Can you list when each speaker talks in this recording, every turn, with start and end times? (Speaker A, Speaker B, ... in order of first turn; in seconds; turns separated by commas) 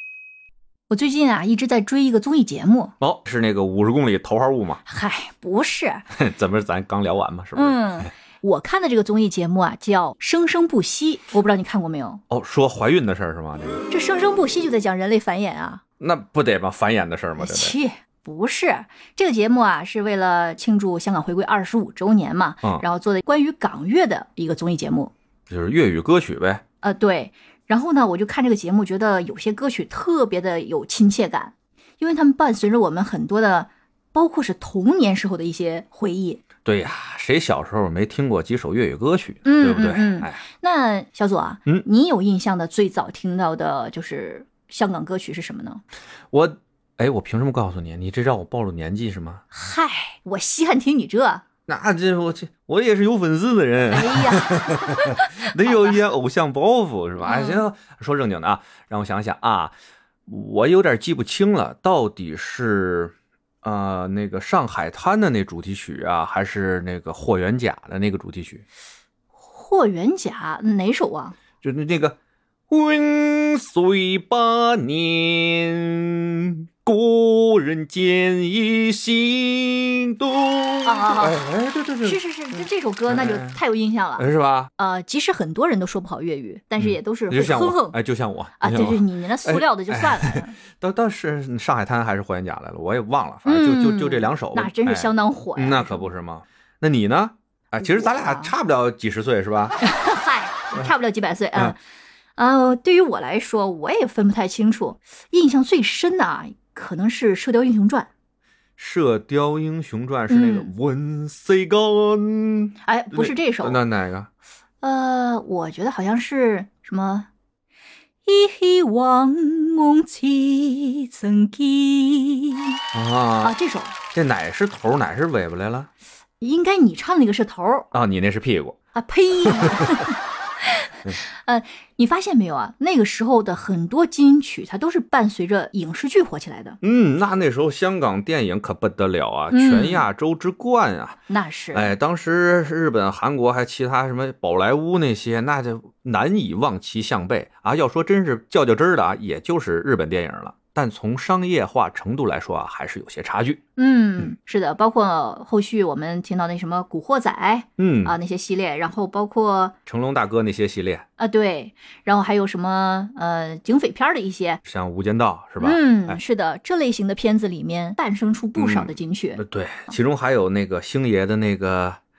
Speaker A: 0.9-2.9, Speaker B: 3.0-4.8, Speaker A: 4.8-6.0, Speaker B: 6.1-8.1, Speaker A: 7.5-12.2, Speaker B: 12.3-13.8, Speaker A: 13.9-15.8, Speaker B: 16.0-17.8, Speaker A: 17.4-25.1, Speaker B: 25.5-26.6, Speaker A: 26.8-36.4, Speaker B: 36.6-40.4, Speaker A: 39.4-45.8, Speaker B: 46.3-49.4, Speaker A: 49.5-51.4, Speaker B: 51.7-59.7, Speaker A: 53.9-55.9, Speaker A: 57.2-57.7, Speaker B: 60.3-68.6, Speaker A: 69.4-71.3, Speaker B: 71.6-72.2, Speaker B: 72.7-83.6, Speaker A: 80.8-81.5, Speaker A: 82.0-84.3, Speaker B: 84.2-84.7, Speaker A: 84.8-88.0, Speaker B: 86.8-99.8, Speaker A: 88.6-90.6, Speaker A: 93.4-96.1, Speaker A: 97.8-98.5, Speaker A: 99.8-101.8, Speaker A: 102.3-108.1, Speaker B: 108.8-114.3, Speaker A: 110.3-110.7, Speaker A: 112.8-113.8, Speaker A: 114.8-117.3, Speaker A: 118.2-122.8, Speaker B: 122.9-123.5, Speaker A: 123.4-123.9, Speaker B: 124.1-125.9, Speaker A: 126.4-127.9, Speaker B: 127.9-128.8, Speaker A: 128.9-136.8, Speaker B: 129.6-130.0, Speaker B: 136.8-141.2, Speaker A: 139.5-140.1, Speaker A: 141.3-141.9, Speaker B: 141.7-153.6, Speaker A: 153.8-159.7, Speaker B: 157.8-158.2, Speaker B: 159.8-161.0, Speaker A: 161.2-164.6, Speaker B: 164.6-166.2, Speaker A: 165.6-169.4, Speaker B: 168.6-172.0